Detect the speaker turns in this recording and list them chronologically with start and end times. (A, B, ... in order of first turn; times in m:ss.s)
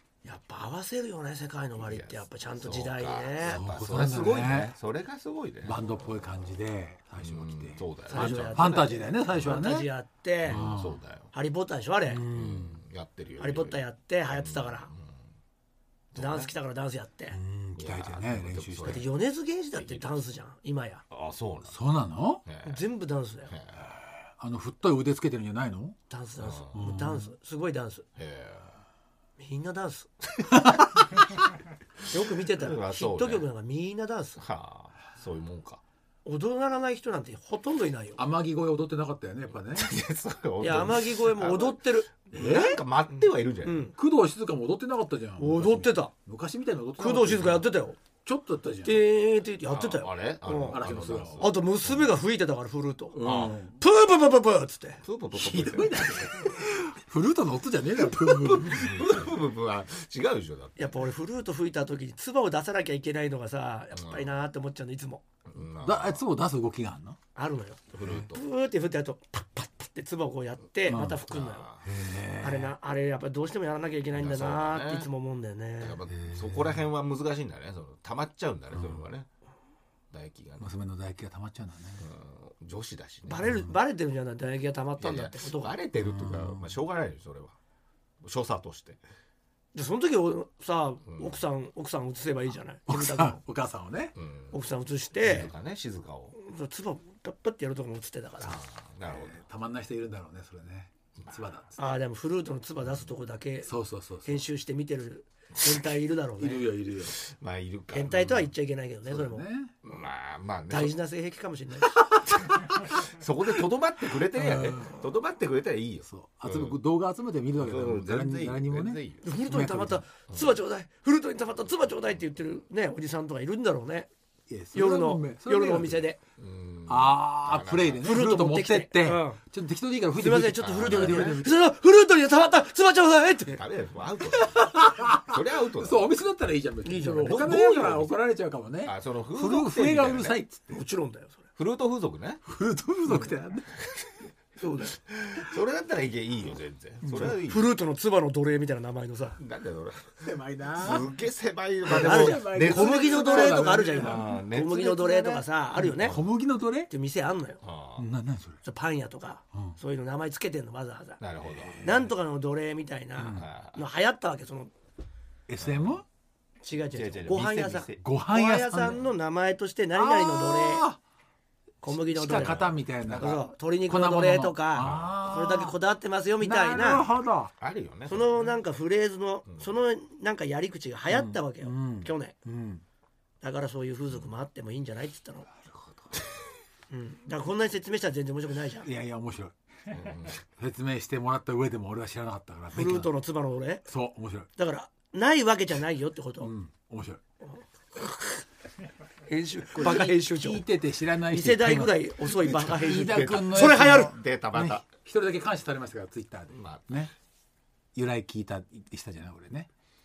0:00.2-0:03.6 A
0:01.8-0:05.8 B
0:03.5-0:04.7 C
0:05.6-0:09.9 C
0:07.2-0:09.5 B
0:08.1-0:10.6 A
0:10.5-0:11.3 B
0:10.5-0:11.0 C
0:11.3-0:12.2 A
0:12.1-0:12.8 C
0:12.3-0:15.1 B
0:13.4-0:14.9 A
0:16.1-0:16.5 B
0:16.2-0:17.4 A
0:17.3-0:19.1 C
0:17.8-0:19.1 B
0:18.8-0:21.0 A
0:19.8-0:20.1 B
0:21.1-0:21.8 B
0:21.7-0:22.4 C
0:22.4-0:22.8 B
0:22.6-0:23.5 A
0:23.5-0:23.9 B
0:24.0-0:26.0 C
0:26.1-0:28.0 A
0:26.4-0:26.9 B
0:26.7-0:27.3 C
0:28.2-0:28.8 B
0:29.4-0:30.1 A
0:30.6-0:31.0 C
0:32.1-0:34.4 A
0:32.5-0:33.5 B
0:34.4-0:35.8 B
0:36.2-0:38.2 A
0:38.2-0:39.9 C
0:39.7-0:43.9 B
0:40.6-0:42.1 A
0:42.3-0:42.8 C
0:43.2-0:44.0 A
0:44.0-0:47.7 C
0:45.4-0:46.1 A
0:47.0-0:48.0 A
0:48.2-0:49.0 C
0:48.8-0:50.8 A
0:49.7-0:52.2 B
0:50.6-0:51.5 C
0:51.4-0:55.0 A
0:53.1-0:53.8 C
0:53.2-0:53.6 B
0:55.0-0:56.5 B
0:55.4-0:59.3 C
0:58.3-1:01.0 B
1:00.8-1:05.2 A
1:03.9-1:04.3 B
1:05.5-1:06.2 B
1:05.8-1:07.2 C
1:07.4-1:11.7 A
1:07.9-1:08.4 B
1:10.9-1:11.2 C
1:11.3-1:11.9 B
1:11.8-1:12.7 C
1:12.4-1:16.0 A
1:14.1-1:15.1 B
1:15.8-1:19.3 B
1:16.1-1:16.8 C
1:18.7-1:19.0 C
1:20.1-1:20.7 B
1:20.6-1:22.0 C
1:22.0-1:23.5 B
1:23.3-1:25.8 A
1:25.0-1:27.6 B
1:26.0-1:26.8 C
1:28.2-1:29.0 B
1:29.7-1:33.4 A
1:31.1-1:31.4 B
1:32.9-1:34.1 C
1:34.2-1:34.6 B
1:34.5-1:35.5 A
1:35.2-1:36.4 B
1:36.4-1:38.6 A
1:38.5-1:39.4 B
1:39.1-1:41.8 C
1:41.2-1:41.4 B
1:41.8-1:43.7 A
1:43.7-1:44.4 C
1:44.2-1:46.7 A
1:46.4-1:47.2 C
1:47.1-1:48.5 B
1:47.9-1:50.0 A
1:49.1-1:49.7 C
1:49.8-1:50.9 B
1:50.7-1:52.0 A
1:52.6-1:56.8 B
1:54.3-1:54.9 C
1:56.1-2:00.0 C
1:57.6-1:59.2 B
1:59.2-2:04.1 A
2:00.3-2:00.6 B
2:04.5-2:06.0 C
2:04.7-2:06.2 A
2:06.4-2:08.2 B
2:06.9-2:11.5 C
2:08.0-2:09.4 A
2:10.2-2:13.6 A
2:10.6-2:11.4 B
2:13.5-2:16.1 B
2:14.3-2:20.8 C
2:16.8-2:17.5 A
2:17.2-2:18.1 B
2:18.8-2:20.4 B
2:20.7-2:21.4 A
2:21.6-2:22.4 B
2:22.5-2:23.8 C
2:25.1-2:27.7 B
2:27.0-2:27.4 C
2:27.2-2:29.4 A
2:29.4-2:35.4 B
2:30.2-2:31.1 C
2:31.8-2:35.2 C
2:31.9-2:36.2 A
2:35.8-2:36.9 C
2:36.9-2:37.6 A
2:37.6-2:38.1 B
2:38.0-2:38.6 C
2:38.6-2:41.2 A
2:41.2-2:41.9 B
2:41.4-2:42.1 C
2:41.8-2:44.7 A
2:43.2-2:43.5 C
2:43.2-2:43.8 B
2:45.5-2:46.0 C
2:45.6-2:46.0 B
2:46.6-2:50.9 A
2:46.9-2:48.0 B
2:48.0-2:49.0 C
2:50.0-2:51.0 C
2:51.8-2:57.1 A
2:51.9-2:55.8 C
2:52.3-2:53.4 B
2:54.8-2:55.2 B
2:56.4-2:57.5 C
2:57.6-2:58.5 B
2:58.1-3:02.4 A
3:01.1-3:02.8 C
3:03.4-3:05.5 A
3:06.9-3:08.9 A
3:08.8-3:09.6 C
3:09.9-3:10.4 B
3:10.6-3:13.1 C
3:12.7-3:13.9 A
3:13.9-3:14.5 C
3:14.6-3:16.5 A
3:16.4-3:17.2 C
3:17.4-3:18.4 A
3:19.3-3:20.6 A
3:19.8-3:27.1 C
3:21.3-3:24.1 A
3:22.6-3:24.8 B
3:26.5-3:26.9 B
3:28.0-3:29.7 C